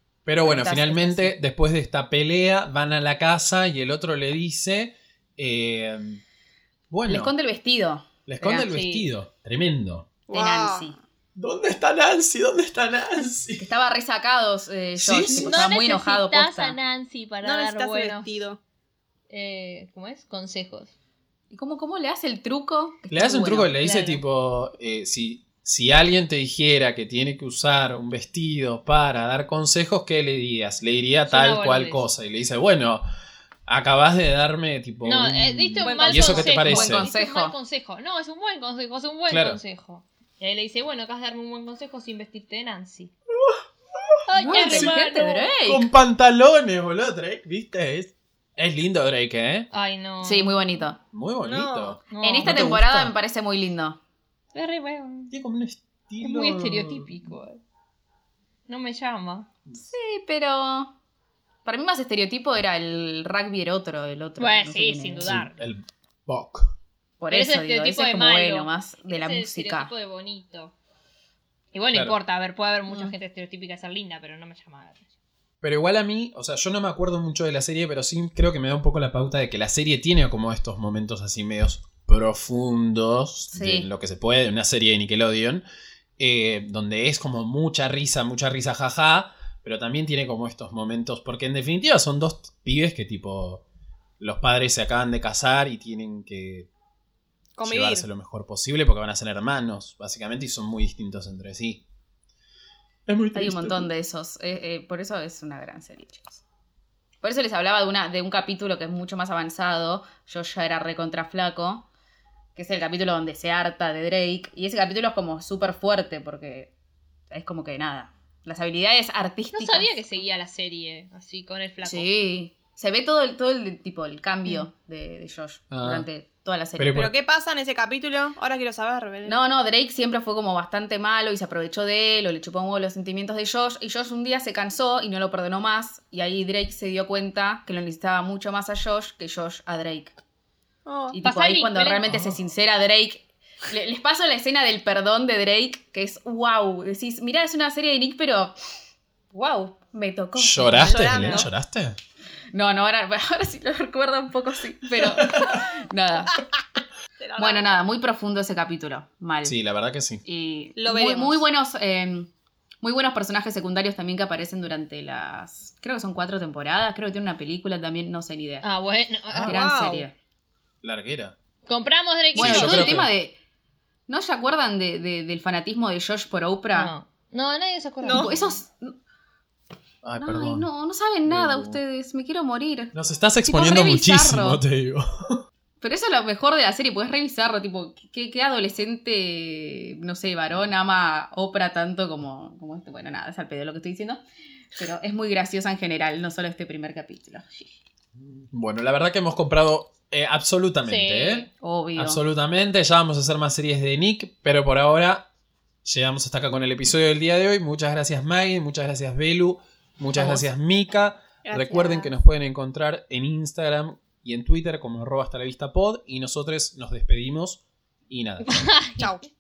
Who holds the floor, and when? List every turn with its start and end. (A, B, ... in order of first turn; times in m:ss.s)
0:00.2-0:06.2 A
0:00.4-0:01.4 B
0:06.9-0:07.3 A
0:07.1-0:08.7 B
0:08.3-0:10.1 A
0:08.7-0:09.1 C
0:10.3-0:10.9 D
0:10.3-0:11.0 B
0:11.4-0:13.7 A
0:13.6-0:16.8 B
0:15.0-0:15.6 A
0:15.3-0:18.4 C
0:15.3-0:15.8 D
0:17.4-0:18.6 D
0:19.3-0:20.9 C
0:21.5-0:23.8 B
0:23.1-0:33.0 A
0:23.8-0:24.2 C
0:31.2-0:32.1 C
0:33.7-0:37.1 A
0:35.0-0:43.1 C
0:35.8-0:36.7 D
0:36.6-0:37.6 B
0:39.3-0:39.6 A
0:43.4-0:45.0 A
0:44.3-0:45.5 C
0:44.4-0:45.9 B
0:45.6-0:49.7 A
0:49.7-0:50.7 C
0:50.2-0:51.0 B
0:51.1-0:53.1 A
0:51.4-0:52.0 D
0:52.1-0:52.7 C
0:52.2-0:54.0 B
0:54.5-0:55.3 C
0:55.3-0:57.2 A
0:56.2-0:57.6 C
0:58.7-0:59.5 C
0:59.8-1:00.9 B
1:01.6-1:05.4 B
1:04.4-1:05.6 C
1:05.2-1:06.8 A
1:07.2-1:09.9 B
1:07.3-1:10.7 C
1:11.7-1:15.1 C
1:12.9-1:13.1 B
1:15.6-1:25.6 A
1:23.5-1:23.9 B
1:26.2-1:33.6 A
1:34.2-1:36.7 A
1:37.6-1:38.0 D
1:37.6-1:41.8 A
1:43.1-1:43.9 A
1:43.4-1:46.4 B
1:47.2-1:51.9 B
1:52.6-1:56.7 B
1:57.3-2:00.2 B
1:59.5-2:02.1 C
2:01.8-2:07.1 B
2:05.7-2:06.1 A
2:06.8-2:07.1 A
2:06.9-2:09.4 D
2:09.3-2:20.2 B
2:20.9-2:21.2 D
2:21.1-2:28.6 B
2:21.2-2:22.1 C
2:22.1-2:22.4 A
2:29.3-2:31.5 B
2:30.4-2:32.0 A
2:30.8-2:31.5 D
2:32.5-2:36.4 B
2:37.2-2:37.8 D
2:37.4-2:39.6 B
2:39.4-2:40.2 A
2:40.2-2:42.3 B
2:40.8-2:41.5 D
2:42.8-2:48.7 B
2:48.6-2:49.6 C
2:49.4-2:50.1 B
2:49.5-2:50.1 D
2:50.8-2:51.4 A
2:51.7-2:53.0 C
2:52.4-2:53.4 B
2:52.4-2:53.1 A
2:54.1-2:56.9 B
2:56.8-2:58.3 C
2:58.0-2:58.3 D
2:58.1-2:59.0 B
2:58.3-2:58.6 A
3:00.0-3:00.7 A
3:00.2-3:02.9 B
3:01.3-3:01.8 A
3:02.9-3:05.4 A
3:03.5-3:04.6 B
3:05.8-3:14.2 B
3:14.8-3:17.8 B
3:18.5-3:25.3 A
3:20.8-3:21.5 C
3:21.6-3:22.2 B
3:25.8-3:38.5 A
3:30.1-3:30.5 B
3:31.4-3:32.1 D
3:38.4-3:39.1 C
3:39.0-3:39.3 D